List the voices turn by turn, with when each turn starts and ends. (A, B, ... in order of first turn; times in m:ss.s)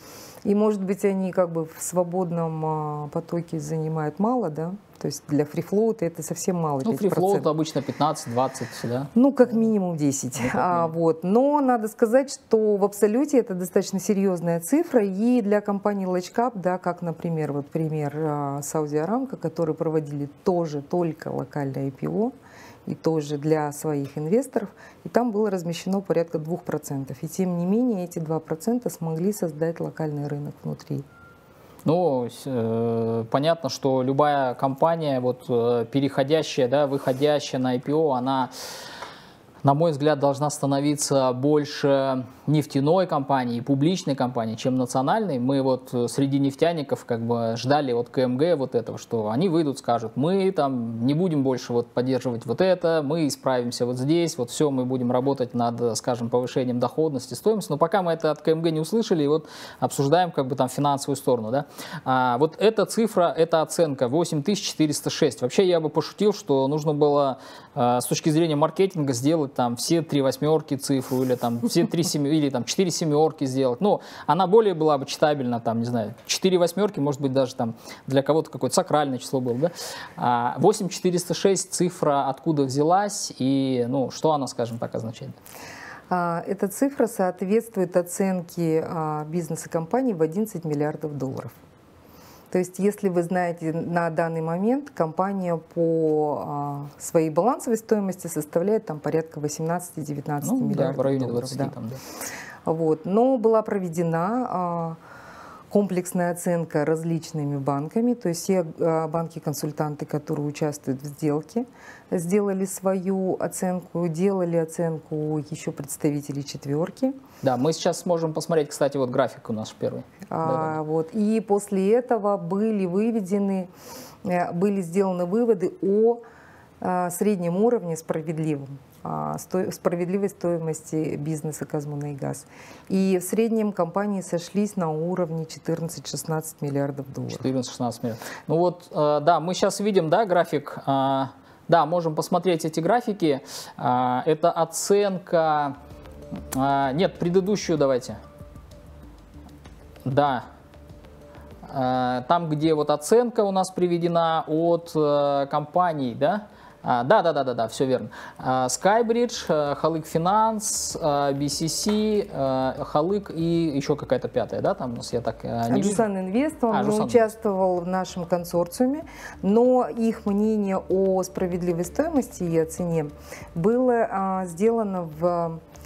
0:00.4-0:07.5 A
0:06.8-0:09.1 B
0:09.1-0:22.3 A
0:10.4-0:10.9 B
0:22.8-0:31.0 A
0:31.8-0:38.5 B
0:39.6-1:25.4 B
1:26.1-1:31.5 A
1:32.5-1:41.7 A
1:40.4-1:42.0 B
1:42.6-1:45.0 A
1:45.7-1:57.2 A
1:57.4-2:00.8 B
2:00.3-2:03.7 A
2:04.2-2:06.2 A
2:06.8-2:17.5 A
2:17.3-2:25.8 B
2:26.5-2:28.2 B
2:30.0-2:30.4 B
2:31.6-2:46.0 B
2:45.7-2:55.6 A
2:46.7-2:47.3 B